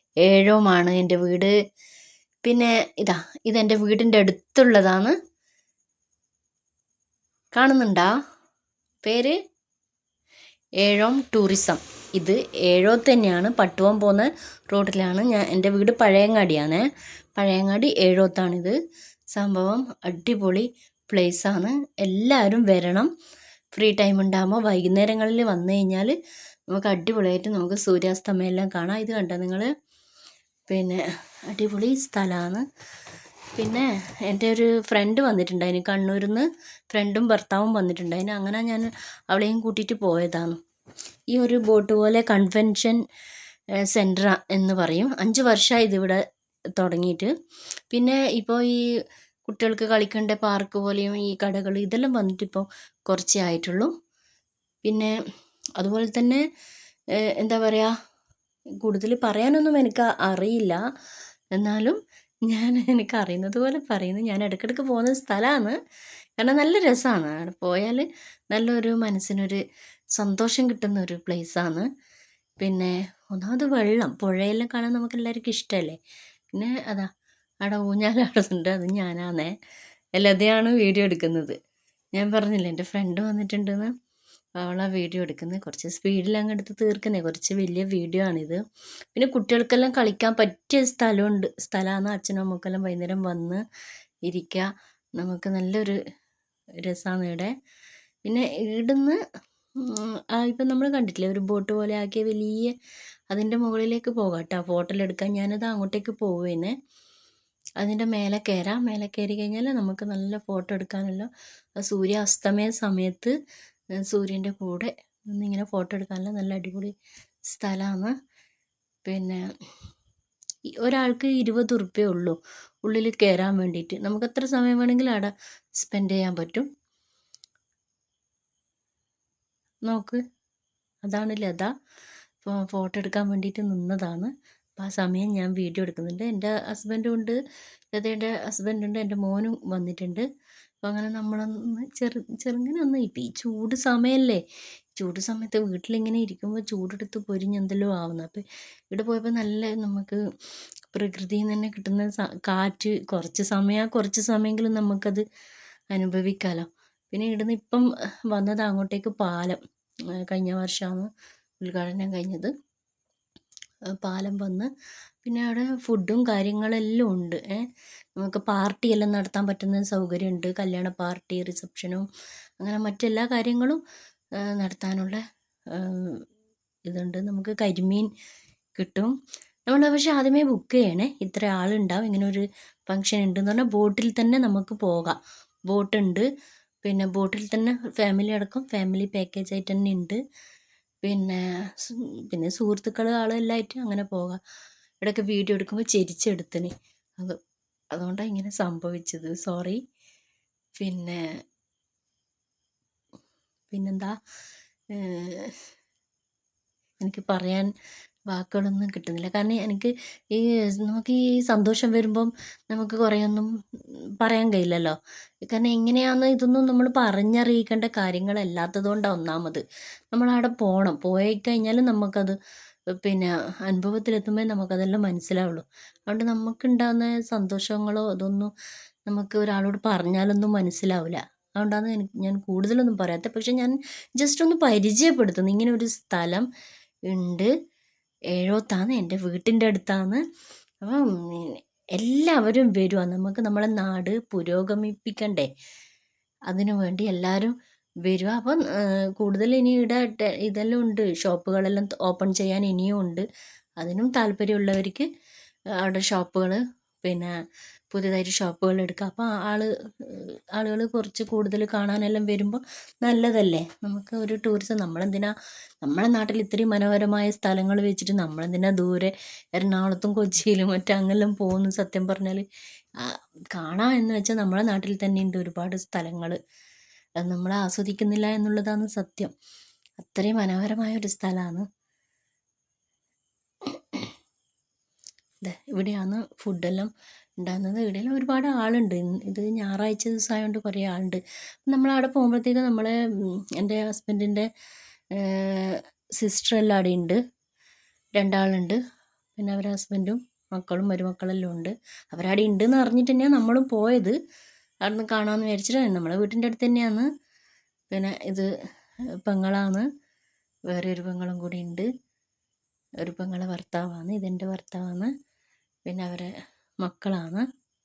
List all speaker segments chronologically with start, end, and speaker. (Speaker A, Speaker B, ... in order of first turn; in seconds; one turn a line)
Speaker A: 0.2-1.5
Speaker A: 2.4-5.1
Speaker A: 7.5-8.1
Speaker A: 9.0-9.3
Speaker A: 10.8-16.8
Speaker A: 17.4-18.8
Speaker A: 19.3-23.1
Speaker A: 23.7-26.1
Speaker A: 26.7-29.7
Speaker A: 30.7-32.6
Speaker A: 33.6-40.6
Speaker A: 41.3-43.0
Speaker A: 43.9-46.2
Speaker A: 46.8-47.3
Speaker A: 47.9-48.8
Speaker A: 49.5-53.9
Speaker A: 54.8-55.1
Speaker A: 55.8-56.4
Speaker A: 57.2-57.9
Speaker A: 58.8-60.8
Speaker A: 61.5-65.8
Speaker A: 66.4-69.6
Speaker A: 70.1-71.9
Speaker A: 72.6-76.0
Speaker A: 76.5-77.1
Speaker A: 77.6-79.5
Speaker A: 80.2-81.5
Speaker A: 82.1-83.9
Speaker A: 84.6-88.6
Speaker A: 89.1-93.6
Speaker A: 94.2-96.0
Speaker A: 96.8-97.5
Speaker A: 98.2-99.2
Speaker A: 99.8-102.7
Speaker A: 103.3-106.7
Speaker A: 107.8-113.3
Speaker A: 114.0-116.9
Speaker A: 117.5-118.1
Speaker A: 119.0-119.4
Speaker A: 120.8-126.7
Speaker A: 129.8-130.2
Speaker A: 131.1-131.7
Speaker A: 132.4-137.4
Speaker A: 137.9-140.2
Speaker A: 140.8-144.4
Speaker A: 144.9-150.2
Speaker A: 150.9-155.2
Speaker A: 155.9-159.6
Speaker A: 160.2-161.1
Speaker A: 161.6-162.5
Speaker A: 164.0-164.7
Speaker A: 165.2-172.1
Speaker A: 172.6-173.8
Speaker A: 174.4-176.2
Speaker A: 176.9-178.1
Speaker A: 178.8-179.1
Speaker A: 179.7-185.2
Speaker A: 185.7-186.3
Speaker A: 186.8-190.2
Speaker A: 191.0-194.4
Speaker A: 195.0-197.4
Speaker A: 197.9-199.8
Speaker A: 200.8-201.2
Speaker A: 203.7-204.1
Speaker A: 204.9-205.6
Speaker A: 207.0-207.7
Speaker A: 208.3-213.5
Speaker A: 214.2-222.3
Speaker A: 223.0-228.5
Speaker A: 229.1-236.5
Speaker A: 237.1-237.5
Speaker A: 238.3-240.2
Speaker A: 240.8-245.5
Speaker A: 246.5-247.5
Speaker A: 248.0-253.2
Speaker A: 253.8-255.1
Speaker A: 255.8-257.3
Speaker A: 257.9-272.4
Speaker A: 273.0-276.4
Speaker A: 277.2-279.3
Speaker A: 280.0-281.6
Speaker A: 283.6-284.1
Speaker A: 285.4-294.5
Speaker A: 295.1-297.2
Speaker A: 298.1-298.8
Speaker A: 299.4-304.1
Speaker A: 304.8-307.1
Speaker A: 307.9-308.5
Speaker A: 309.2-309.9
Speaker A: 310.7-311.9
Speaker A: 313.0-315.1
Speaker A: 315.9-316.3
Speaker A: 316.8-317.4